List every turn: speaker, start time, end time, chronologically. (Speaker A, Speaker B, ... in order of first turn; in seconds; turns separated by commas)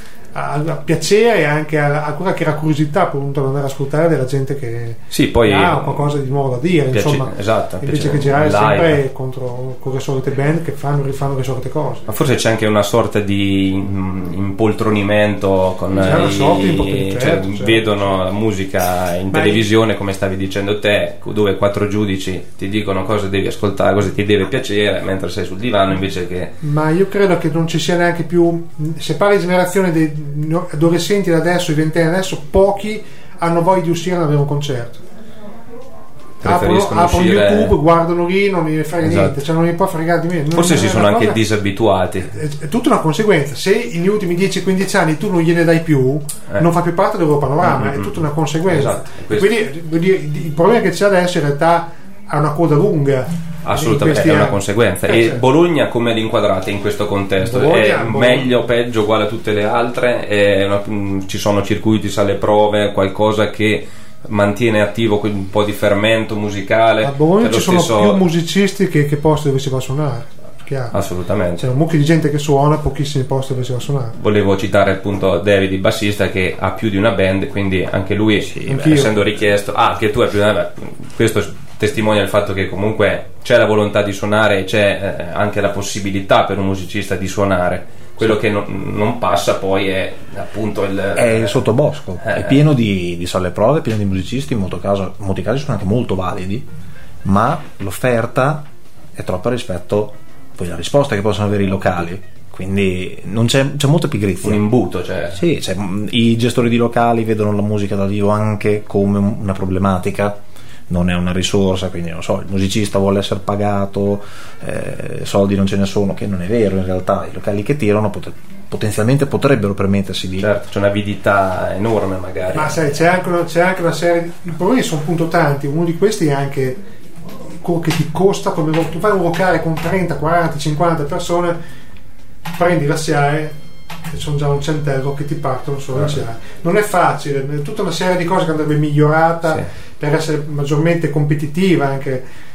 Speaker A: 0.3-12.0, Speaker B: 5.1-6.1, Speaker B: 6.9-9.0, Speaker B: 12.1-26.5, Speaker A: 15.9-17.8, Speaker A: 19.3-19.6, Speaker A: 26.6-35.0, Speaker B: 36.4-37.7, Speaker A: 36.4-41.4, Speaker B: 39.0-39.4, Speaker B: 40.5-42.3, Speaker A: 42.3-55.4, Speaker B: 47.6-49.5, Speaker B: 53.6-68.2, Speaker A: 57.4-58.5, Speaker A: 67.0-71.0, Speaker B: 70.9-71.6, Speaker A: 71.6-74.2, Speaker B: 74.2-91.6, Speaker A: 78.5-79.1, Speaker C: 91.1-96.7, Speaker B: 92.2-92.6, Speaker C: 97.2-98.6, Speaker C: 99.2-104.6, Speaker B: 104.4-105.4, Speaker C: 105.3-110.4, Speaker C: 110.9-120.5, Speaker B: 120.4-122.7, Speaker A: 122.5-126.8, Speaker A: 127.6-131.6, Speaker A: 132.5-133.6, Speaker A: 134.1-142.2